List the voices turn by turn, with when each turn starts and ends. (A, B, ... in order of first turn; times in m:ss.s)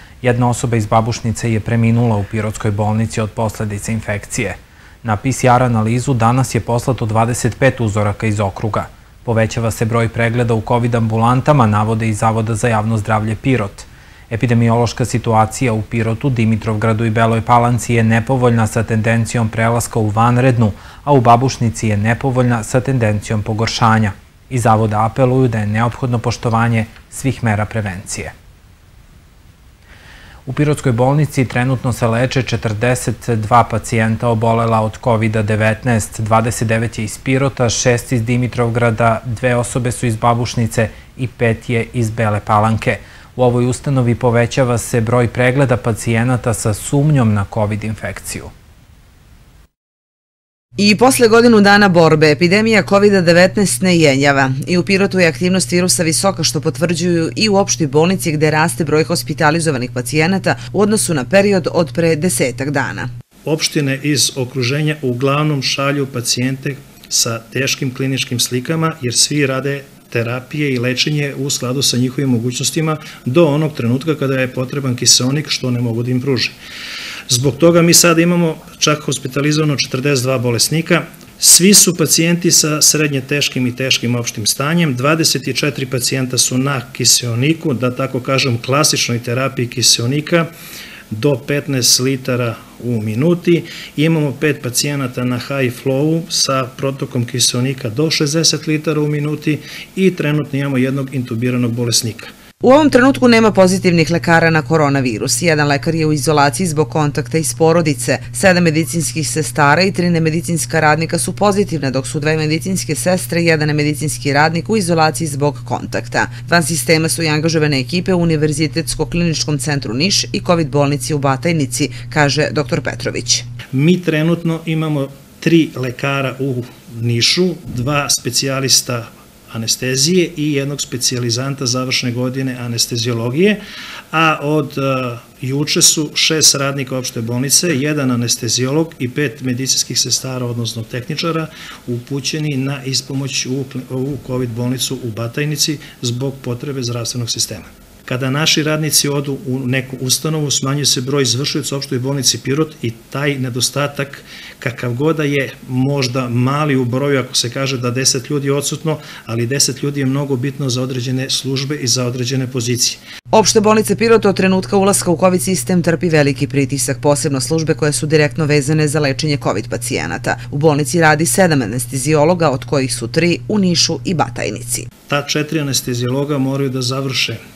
0:00.2-0:28.3 A
0:30.5-0:48.5 A
0:50.8-1:03.1 B
1:03.4-1:16.6 C
1:17.3-1:30.5 C
1:31.1-1:42.3 C
1:42.6-2:03.5 B
2:03.7-2:13.6 C
2:14.1-2:43.0 C
2:43.3-2:54.9 B
2:55.1-2:57.4 C